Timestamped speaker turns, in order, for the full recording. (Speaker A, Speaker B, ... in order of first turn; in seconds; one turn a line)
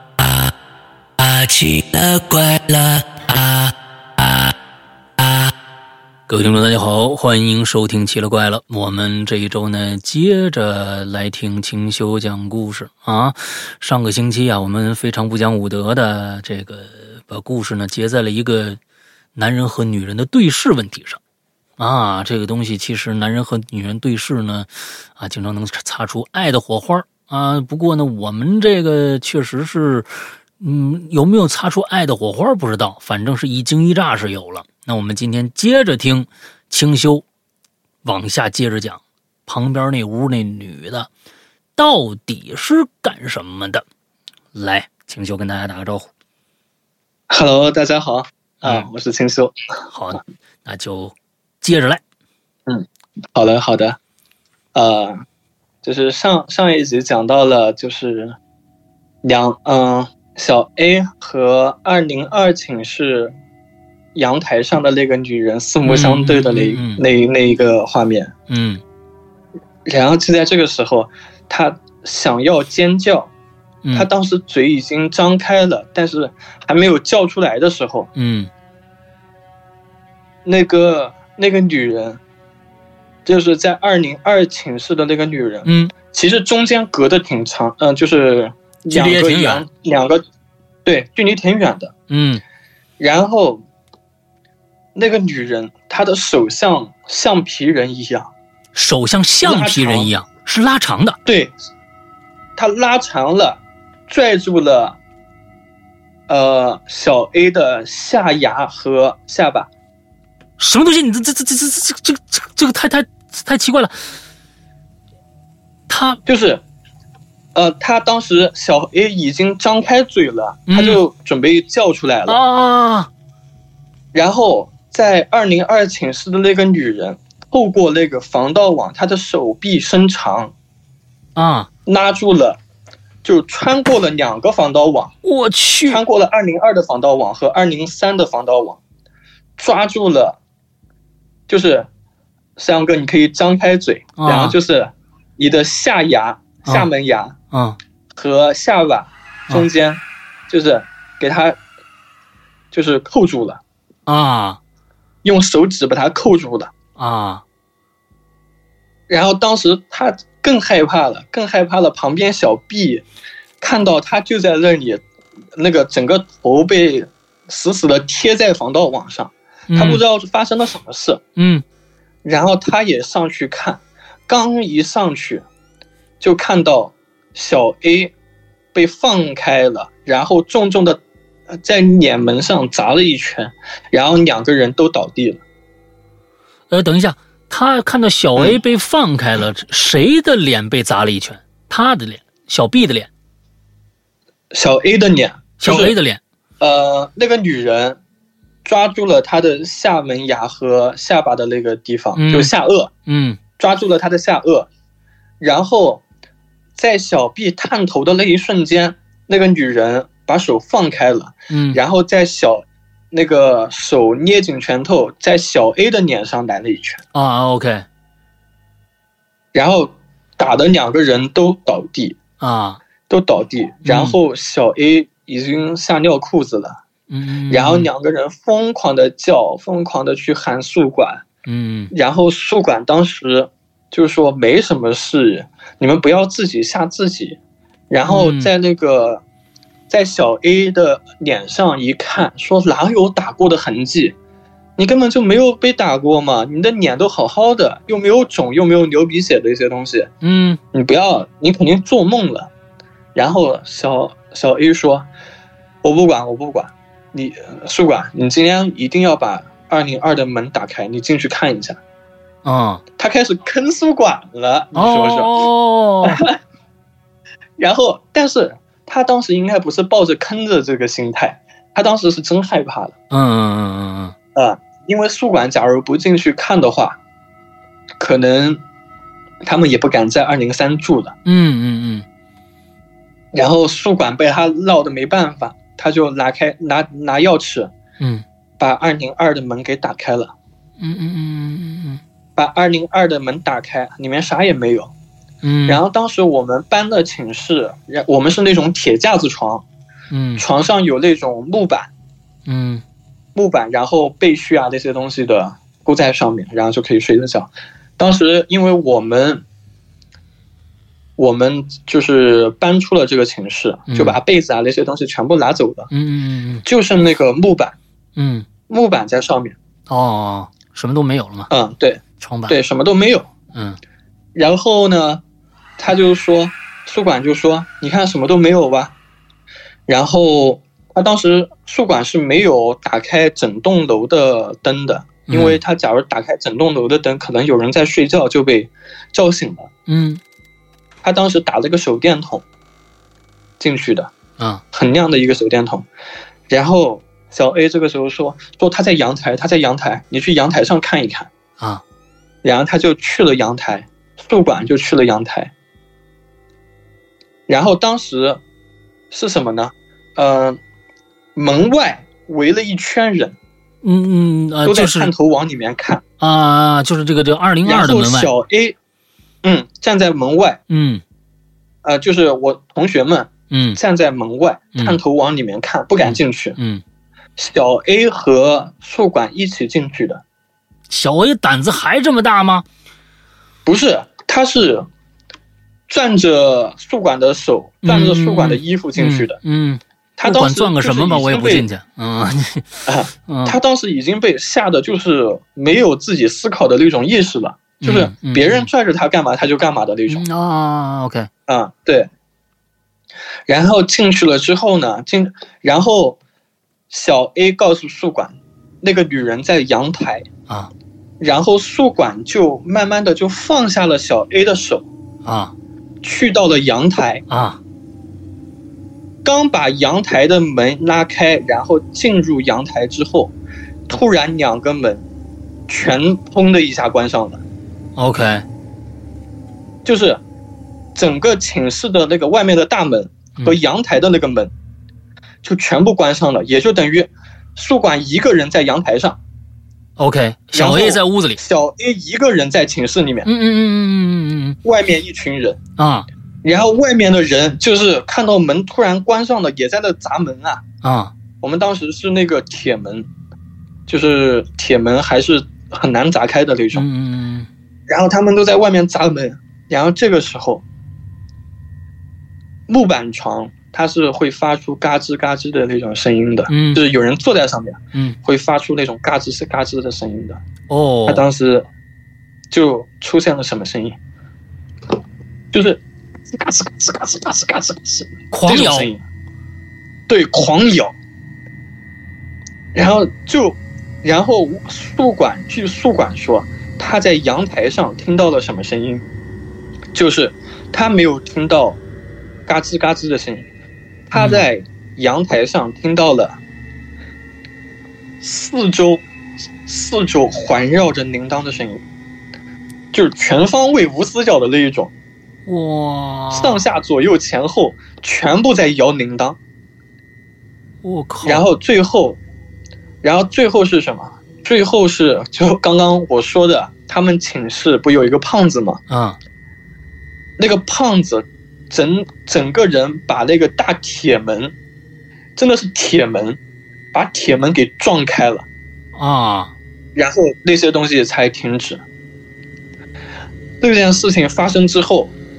Speaker A: 0.2-0.5
Speaker A: 1.2-4.5
Speaker A: 5.2-5.5
Speaker B: 6.3-18.8
Speaker B: 19.4-21.2
Speaker B: 21.8-37.2
Speaker B: 38.0-41.1
Speaker B: 41.8-43.8
Speaker B: 44.5-46.1
Speaker C: 47.3-49.5
Speaker B: 48.6-48.9
Speaker B: 49.9-52.0
Speaker C: 52.7-54.0
Speaker C: 54.8-55.2
Speaker C: 55.8-58.4
Speaker C: 59.2-63.3
Speaker C: 64.2-68.3
Speaker B: 65.8-67.0
Speaker B: 68.5-68.8
Speaker C: 69.9-73.3
Speaker C: 73.9-78.1
Speaker B: 78.2-78.5
Speaker C: 80.5-82.2
Speaker C: 83.2-90.2
Speaker B: 85.7-85.9
Speaker B: 88.9-89.6
Speaker C: 90.8-91.9
Speaker B: 92.1-92.4
Speaker C: 93.0-93.6
Speaker C: 95.0-98.3
Speaker B: 98.7-101.2
Speaker C: 99.4-100.1
Speaker C: 101.3-101.5
Speaker C: 102.6-105.0
Speaker C: 106.3-109.7
Speaker B: 110.6-114.0
Speaker B: 115.9-116.2
Speaker C: 116.3-116.6
Speaker C: 117.5-122.4
Speaker B: 120.7-121.0
Speaker B: 122.3-123.1
Speaker C: 124.1-130.5
Speaker B: 131.4-131.7
Speaker C: 131.9-132.6
Speaker C: 133.2-135.1
Speaker B: 135.2-136.0
Speaker C: 135.9-138.8
Speaker C: 139.6-140.4
Speaker C: 141.5-141.9
Speaker C: 142.6-147.4
Speaker B: 144.2-144.6
Speaker B: 147.5-147.8
Speaker C: 148.2-151.6
Speaker C: 152.7-153.6
Speaker B: 154.1-154.6
Speaker C: 155.2-156.7
Speaker B: 157.0-157.4
Speaker C: 159.1-163.1
Speaker C: 163.6-165.0
Speaker C: 165.6-171.2
Speaker B: 169.7-170.0
Speaker B: 171.4-171.6
Speaker C: 172.2-175.5
Speaker C: 176.2-178.1
Speaker C: 178.7-185.4
Speaker B: 186.7-193.1
Speaker C: 194.5-196.0
Speaker B: 195.6-196.2
Speaker C: 196.6-198.0
Speaker C: 198.7-202.9
Speaker B: 202.2-202.5
Speaker B: 203.1-203.4
Speaker C: 203.6-204.7
Speaker C: 205.4-206.0
Speaker C: 206.8-217.0
Speaker B: 211.5-211.8
Speaker B: 217.1-217.9
Speaker C: 219.5-222.2
Speaker B: 222.4-222.8
Speaker C: 223.1-226.8
Speaker B: 223.8-224.2
Speaker B: 227.1-227.9
Speaker C: 227.5-231.2
Speaker B: 231.5-231.9
Speaker C: 231.9-237.4
Speaker C: 237.9-239.2
Speaker B: 238.1-238.5
Speaker C: 239.9-244.2
Speaker C: 244.8-250.1
Speaker B: 250.2-250.6
Speaker C: 250.7-252.5
Speaker C: 253.2-255.1
Speaker C: 255.8-261.8
Speaker B: 262.4-262.8
Speaker C: 263.0-265.5
Speaker B: 264.8-266.2
Speaker C: 266.0-266.4
Speaker C: 267.6-272.9
Speaker B: 273.1-274.1
Speaker C: 274.4-277.0
Speaker C: 278.0-278.6
Speaker C: 279.4-281.2
Speaker B: 281.3-282.1
Speaker C: 283.3-287.7
Speaker C: 288.6-290.3
Speaker B: 290.8-292.0
Speaker C: 292.4-294.9
Speaker B: 295.4-295.8
Speaker C: 295.7-299.7
Speaker B: 300.1-300.4
Speaker C: 300.4-301.9
Speaker B: 302.5-302.8
Speaker C: 303.4-309.4
Speaker C: 311.2-315.9
Speaker B: 313.9-314.2
Speaker B: 315.9-316.6
Speaker C: 316.6-317.8
Speaker B: 318.2-318.5
Speaker C: 318.7-319.6
Speaker B: 319.9-321.5
Speaker C: 321.5-323.3
Speaker B: 322.2-322.6
Speaker B: 323.5-323.8
Speaker C: 324.4-325.2
Speaker C: 325.8-328.9
Speaker C: 329.9-339.7
Speaker B: 335.3-335.6
Speaker B: 339.9-340.2
Speaker C: 341.0-342.4
Speaker C: 343.6-344.1
Speaker C: 344.7-345.9
Speaker C: 346.5-351.3
Speaker C: 352.4-355.5
Speaker C: 357.5-358.4
Speaker C: 359.1-360.6
Speaker C: 361.4-363.4
Speaker B: 363.8-365.1
Speaker C: 364.6-366.0
Speaker B: 366.2-368.3
Speaker C: 367.6-368.8
Speaker C: 369.4-370.6
Speaker B: 370.7-371.0
Speaker C: 371.8-376.6
Speaker B: 373.5-373.8
Speaker B: 376.0-376.8
Speaker C: 377.4-380.2
Speaker B: 380.9-382.6
Speaker C: 383.7-384.9
Speaker C: 385.9-389.4
Speaker B: 387.8-393.6
Speaker C: 390.2-391.7
Speaker C: 392.9-400.2
Speaker B: 397.8-398.7
Speaker B: 400.1-401.3
Speaker C: 401.5-402.1
Speaker C: 403.5-406.2
Speaker C: 406.9-410.3
Speaker C: 411.2-414.9
Speaker B: 415.2-415.5
Speaker C: 416.0-417.2
Speaker B: 417.3-417.6
Speaker C: 419.2-423.3
Speaker C: 423.9-425.1
Speaker C: 425.7-427.4
Speaker B: 428.0-428.4
Speaker C: 429.9-430.2
Speaker C: 430.9-434.5
Speaker C: 435.4-439.2
Speaker B: 440.0-441.4
Speaker C: 440.5-443.3
Speaker B: 443.3-444.6
Speaker C: 444.6-445.6
Speaker B: 445.8-446.1
Speaker C: 446.4-450.6
Speaker B: 450.8-451.1
Speaker C: 451.4-453.1
Speaker C: 453.9-456.9
Speaker B: 456.7-457.5
Speaker C: 457.9-460.6
Speaker C: 462.7-470.4
Speaker B: 466.5-466.8
Speaker B: 470.7-471.2
Speaker C: 471.1-471.7
Speaker C: 472.5-474.0
Speaker C: 475.5-479.0
Speaker B: 478.3-478.9
Speaker C: 480.1-480.9
Speaker C: 482.7-489.1
Speaker C: 489.9-491.8
Speaker C: 492.5-493.5
Speaker C: 494.1-496.4
Speaker B: 494.1-494.5
Speaker C: 498.2-499.0
Speaker C: 499.6-501.8
Speaker C: 502.9-504.9
Speaker B: 505.5-506.6
Speaker C: 506.3-509.4
Speaker B: 510.8-511.4
Speaker C: 511.2-512.2
Speaker C: 513.0-518.8
Speaker B: 518.9-519.2
Speaker C: 520.4-524.5
Speaker C: 525.4-526.4
Speaker C: 526.9-528.5
Speaker B: 529.0-529.5
Speaker C: 530.0-531.8
Speaker C: 533.6-535.1